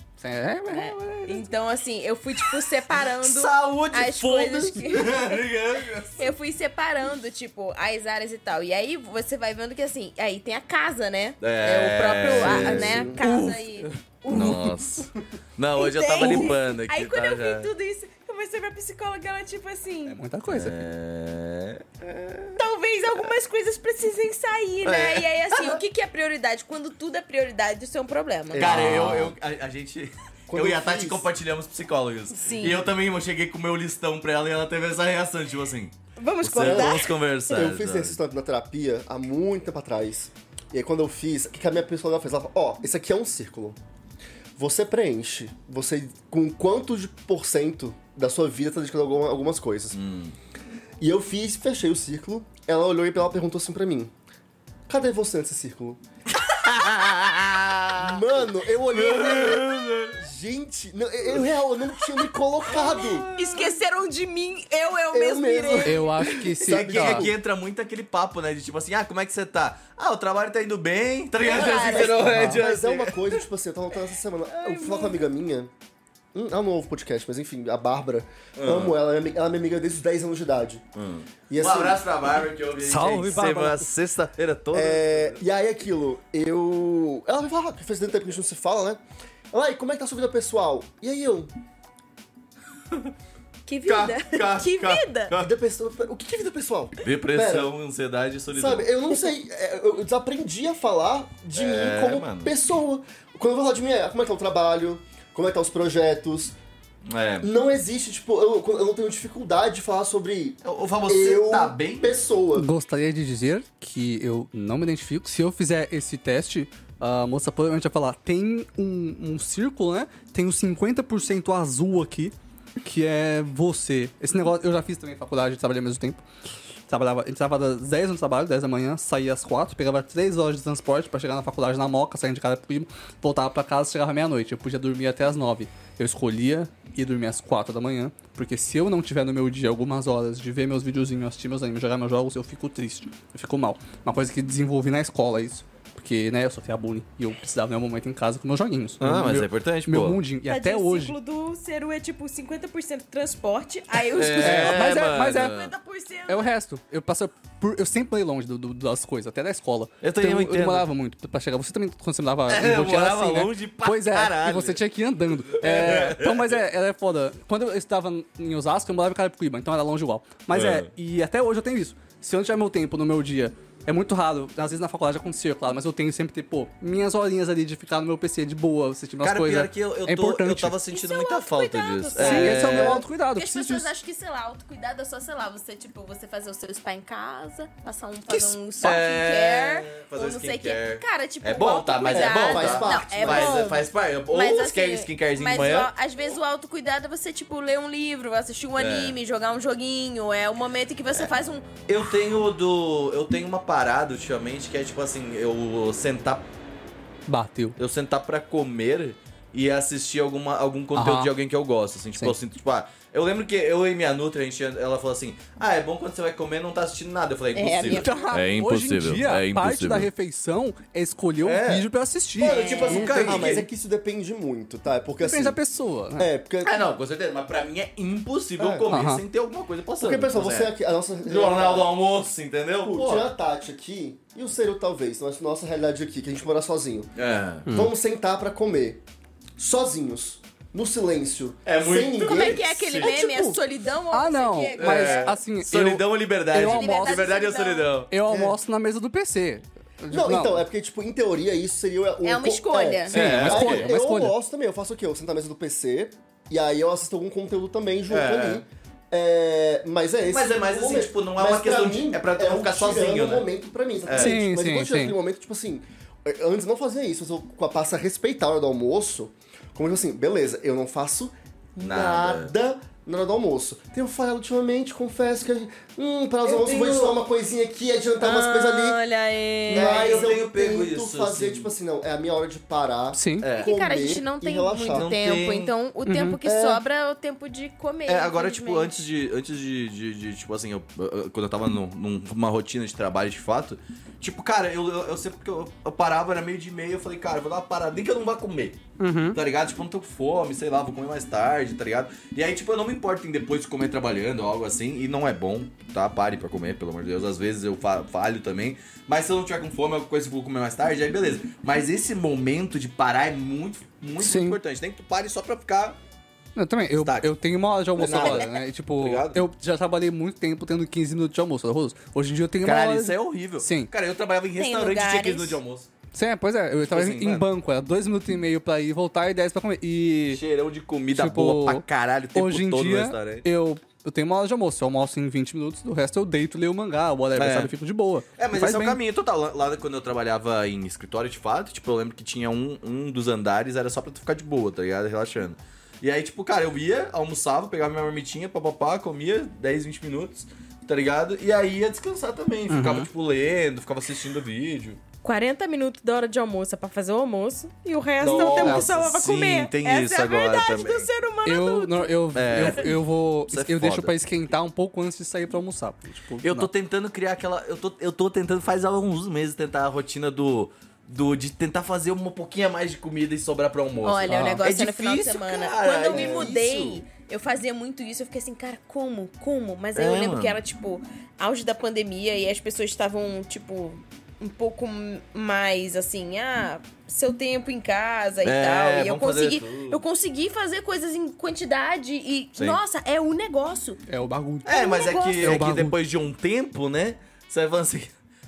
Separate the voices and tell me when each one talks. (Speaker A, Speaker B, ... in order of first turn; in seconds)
Speaker A: 0.2-1.5, 20.1-20.8, 65.8-67.3, 72.2-72.6, 82.8-83.9, 112.5-126.2, 126.9-151.1, 154.4-155.6, 156.3-180.7, 182.2-183.9, 207.3-207.8, 210.9-211.3, 217.9-223.2, 225.3-226.3, 228.9-229.2, 237.7-237.9, 244.1-247.3, 248.1-250.6, 253.1-254.3, 264.2-265.1, 283.1-283.5, 286.1-286.4, 299.0-299.4, 314.2-314.6, 316.6-323.9, 326.1-330.4, 331.1-339.0, 352.7-353.1, 358.6-358.9, 361.4-366.7, 374.3-374.6, 394.1-394.7, 395.4-396.0
Speaker B: 0.7-5.4, 6.2-14.8, 15.8-20.2, 22.6-28.6, 32.4-32.8, 36.2-37.7, 62.7-66.3, 71.4-72.3, 74.5-75.2, 93.7-95.3, 150.4-156.5, 180.9-201.8, 217.5-218.3, 222.4-223.6, 242.2-245.3, 246.6-247.9, 252.2-253.1, 278.2-280.3, 283.6-288.9, 324.6-325.6, 355.2-362.9, 374.0-394.0, 394.6-395.6
Speaker C: 2.4-6.3, 11.4-17.7, 20.5-22.6, 24.8-25.8, 28.6-38.2, 49.9-50.3, 56.5-58.2, 58.9-60.2, 62.7-63.8, 66.6-73.4, 78.5-78.9, 81.0-85.4, 93.8-95.5, 97.0-98.9, 101.5-102.5, 107.0-107.5, 110.6-112.1, 149.0-150.2, 154.1-155.7, 160.0-160.8, 162.5-164.8, 165.5-166.5, 170.5-170.9, 179.2-183.0, 188.3-195.9, 198.8-199.2, 201.8-206.4, 207.8-220.1, 221.4-221.8, 222.4-223.6, 226.6-230.7, 231.2-233.3, 237.2-237.7, 241.7-243.1, 244.8-248.1, 253.1-253.9, 258.1-258.6, 260.3-263.5, 264.1-264.4, 271.8-272.5, 276.4-277.2, 279.7-281.7, 283.4-283.7, 284.9-285.7, 288.1-298.8, 299.3-316.0, 317.0-317.3, 318.0-319.4, 322.6-325.9, 326.9-327.4, 330.3-333.4, 337.4-337.7, 338.4-355.0, 358.2-361.1, 362.3-364.1, 366.4-377.0, 379.9-380.6, 388.4-390.0, 394.6-398.1
Speaker D: 12.3-13.2, 28.5-29.4, 30.5-31.3, 36.6-37.0, 37.5-43.8, 44.6-50.0, 51.0-54.1, 54.9-56.0, 58.0-63.2, 65.1-67.3, 71.5-75.7, 76.3-80.8, 81.5-82.1, 84.7-89.0, 89.5-91.5, 95.4-97.7, 98.5-106.5, 107.4-112.7, 192.0-193.7, 222.6-225.6, 226.2-226.8, 228.6-228.9, 230.0-231.9, 232.8-237.1, 237.7-239.0, 239.6-243.6, 248.3-248.5, 250.1-279.0, 279.7-285.1, 286.4-286.8, 376.1-376.6